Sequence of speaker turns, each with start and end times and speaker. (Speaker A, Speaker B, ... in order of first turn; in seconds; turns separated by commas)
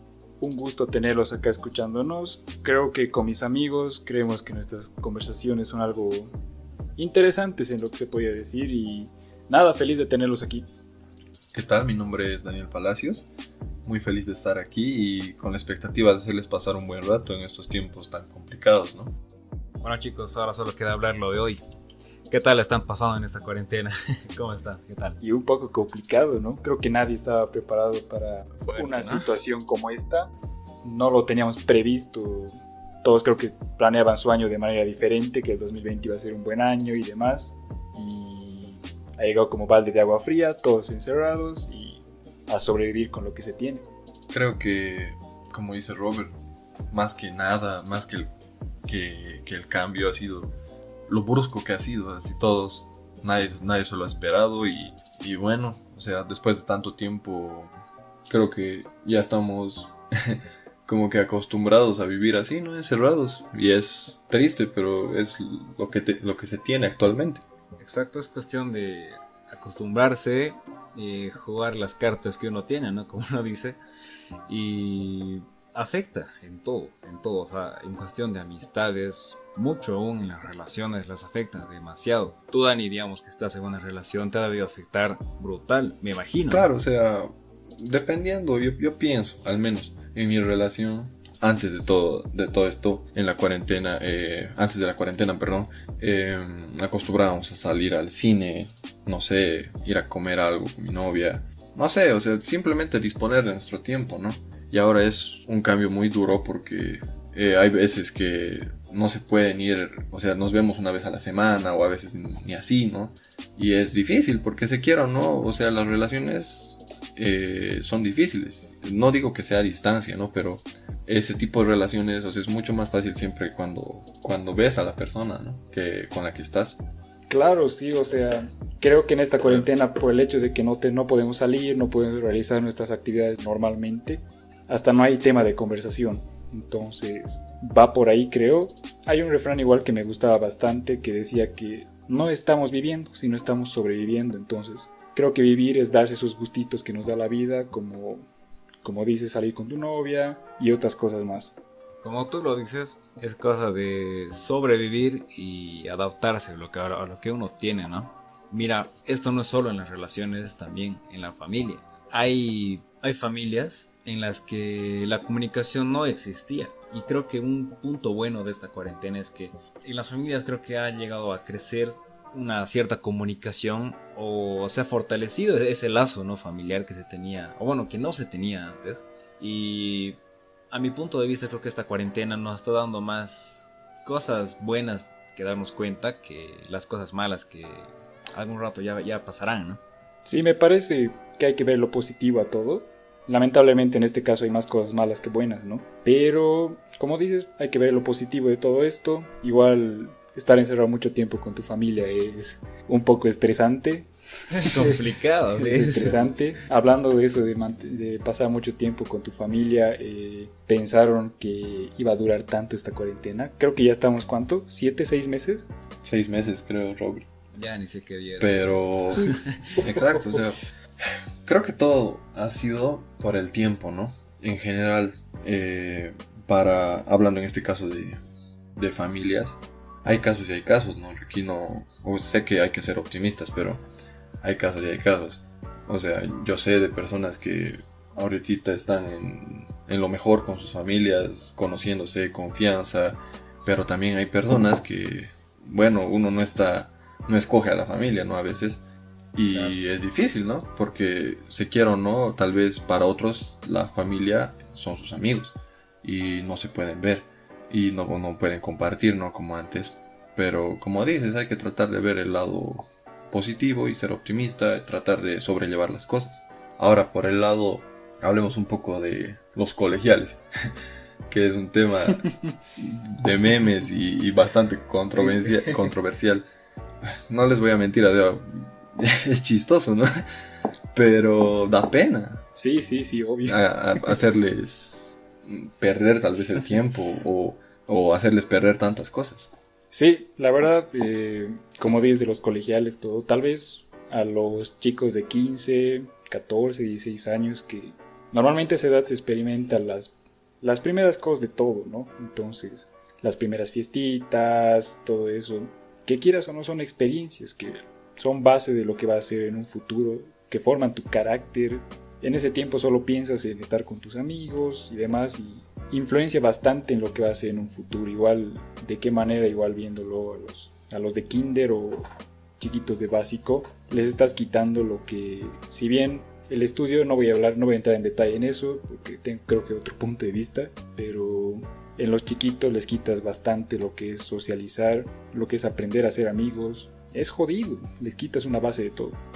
Speaker A: 0.4-6.3, Speaker A: 7.0-10.7, Speaker B: 11.5-13.3, Speaker B: 13.8-19.1, Speaker C: 19.8-21.6, Speaker C: 22.3-25.2, Speaker A: 25.2-30.3, Speaker C: 28.6-29.4, Speaker A: 30.8-43.9, Speaker B: 44.3-46.3, Speaker B: 46.9-48.3, Speaker B: 48.9-50.5, Speaker B: 51.1-57.7, Speaker B: 58.3-67.4, Speaker C: 67.8-73.8, Speaker C: 74.5-86.7, Speaker B: 86.5-87.3, Speaker B: 87.8-126.8, Speaker A: 127.3-148.2, Speaker C: 129.4-129.7, Speaker A: 148.8-151.5, Speaker C: 152.0-189.8, Speaker A: 190.2-204.1, Speaker C: 204.5-206.4, Speaker A: 205.6-215.7, Speaker B: 216.0-217.3, Speaker C: 217.5-219.8, Speaker B: 218.4-220.6, Speaker A: 219.2-220.4, Speaker B: 221.5-228.2, Speaker B: 228.8-233.8, Speaker B: 234.4-248.8, Speaker B: 249.3-270.4, Speaker C: 249.5-249.8, Speaker B: 271.3-272.3, Speaker B: 272.8-276.5, Speaker A: 275.2-275.8, Speaker B: 277.3-280.1, Speaker B: 280.9-282.5, Speaker A: 282.6-284.2, Speaker B: 283.4-289.5, Speaker A: 289.9-322.1, Speaker A: 322.6-339.2